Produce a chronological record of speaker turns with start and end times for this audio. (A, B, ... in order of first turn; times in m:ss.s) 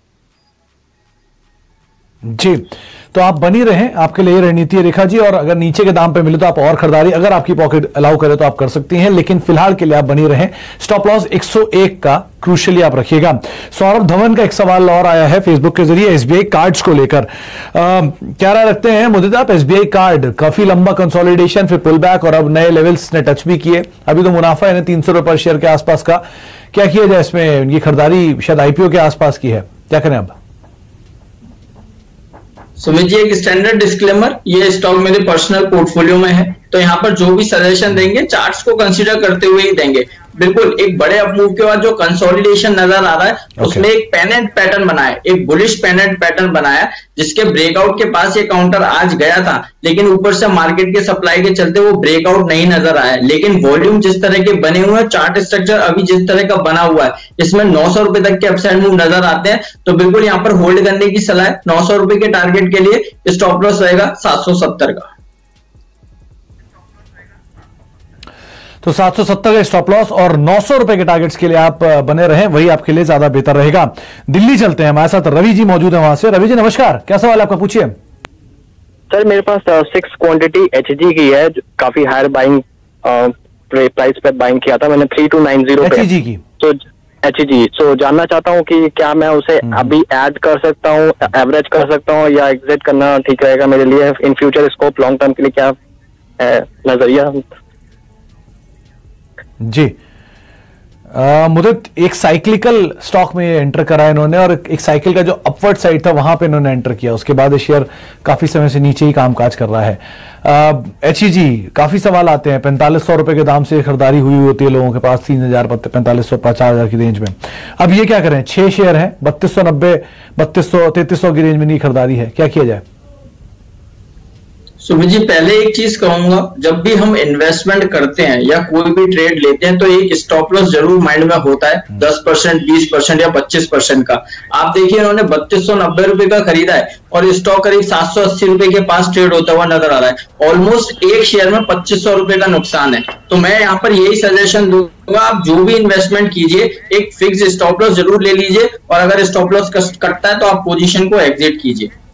0:02.2-0:30.3 A
0:32.8-1:05.1 B
1:08.8-1:17.9 A
1:19.1-1:26.0 C
1:25.8-1:26.4 A
1:26.6-1:35.7 C
1:36.4-1:37.4 C
1:39.6-1:39.9 A
1:41.1-2:02.8 A
2:04.8-2:31.9 B